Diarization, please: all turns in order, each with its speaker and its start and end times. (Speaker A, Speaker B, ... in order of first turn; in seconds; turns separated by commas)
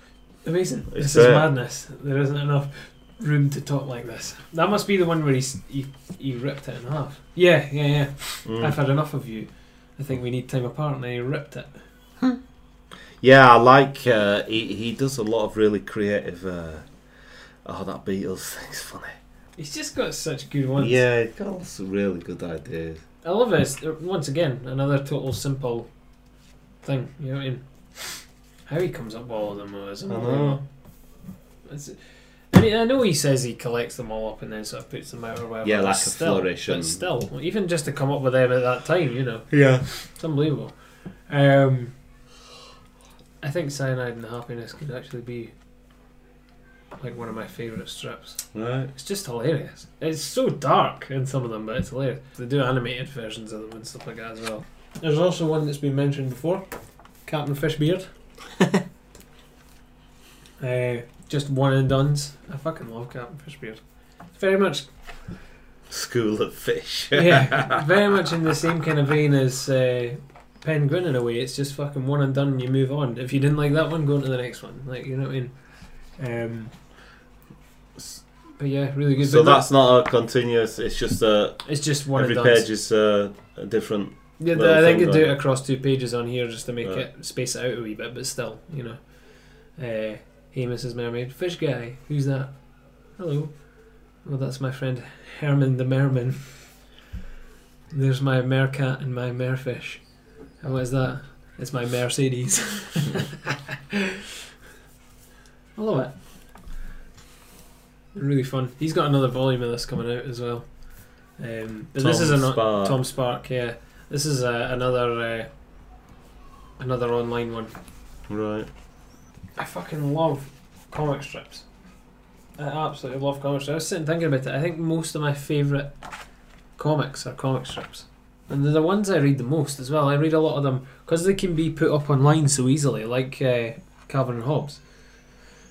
Speaker A: 0.4-11.8, Speaker B: 0.9-1.5, Speaker B: 8.4-8.8, Speaker B: 13.2-16.9, Speaker B: 17.6-19.1, Speaker A: 19.6-21.0, Speaker B: 20.8-23.0, Speaker A: 23.2-25.9, Speaker A: 26.8-30.6, Speaker B: 30.1-30.6, Speaker A: 31.6-32.0, Speaker A: 32.5-40.8, Speaker B: 35.6-37.0, Speaker B: 39.5-39.8, Speaker A: 41.3-41.9, Speaker A: 43.4-45.5, Speaker A: 47.0-56.7, Speaker B: 48.5-48.9, Speaker A: 57.2-58.1, Speaker A: 60.6-64.9, Speaker B: 65.9-67.8, Speaker A: 67.1-76.7, Speaker A: 78.6-79.7, Speaker B: 79.2-85.4, Speaker A: 81.6-82.7, Speaker A: 84.4-92.5, Speaker A: 93.1-93.7, Speaker A: 94.2-96.7, Speaker A: 97.9-103.4, Speaker A: 105.8-106.2, Speaker A: 108.1-115.5, Speaker B: 112.0-113.0, Speaker A: 116.8-117.7, Speaker B: 118.3-118.7, Speaker A: 119.6-121.7, Speaker A: 122.6-125.9, Speaker A: 126.8-134.8